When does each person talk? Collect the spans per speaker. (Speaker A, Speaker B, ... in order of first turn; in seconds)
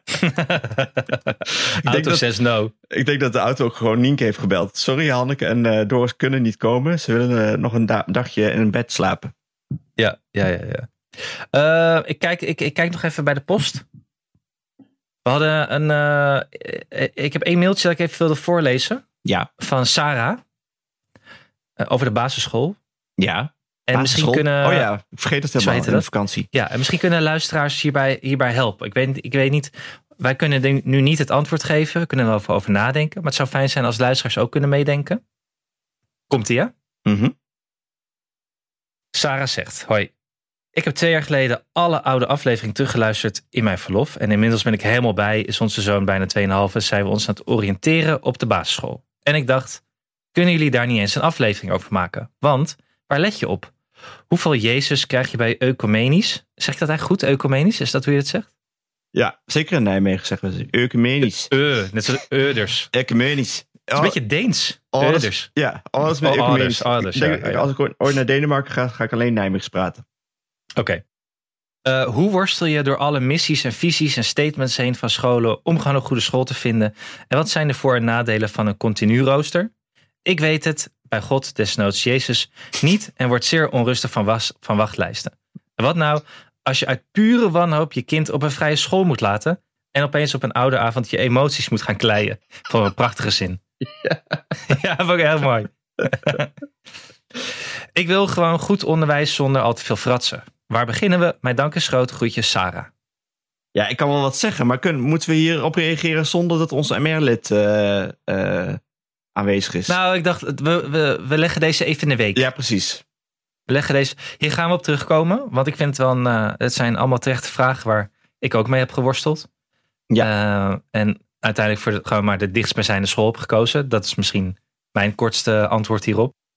Speaker A: 0.1-2.7, 10.0-10.9, 11.5-13.8, 15.2-19.0, 19.6-20.4, 21.8-22.8, 23.9-24.9, 25.6-35.2, 36.3-36.7, 39.1-40.1, 40.7-49.8, 50.3-53.7, 54.3-58.5, 61.5-62.9, 64.0-65.5, 66.1-67.7, 70.8-71.0, 71.8-79.7, 80.2-93.6, 94.7-96.5, 97.9-102.9, 109.9-112.4, 113.7-119.5, 120.2-126.3
Speaker B: 1.8-2.2, 2.9-9.3, 19.2-19.5, 23.2-26.5, 37.0-37.3, 59.1-61.5, 62.9-64.2, 64.9-70.0, 93.9-94.3, 103.7-108.8, 109.3-110.0, 112.3-113.0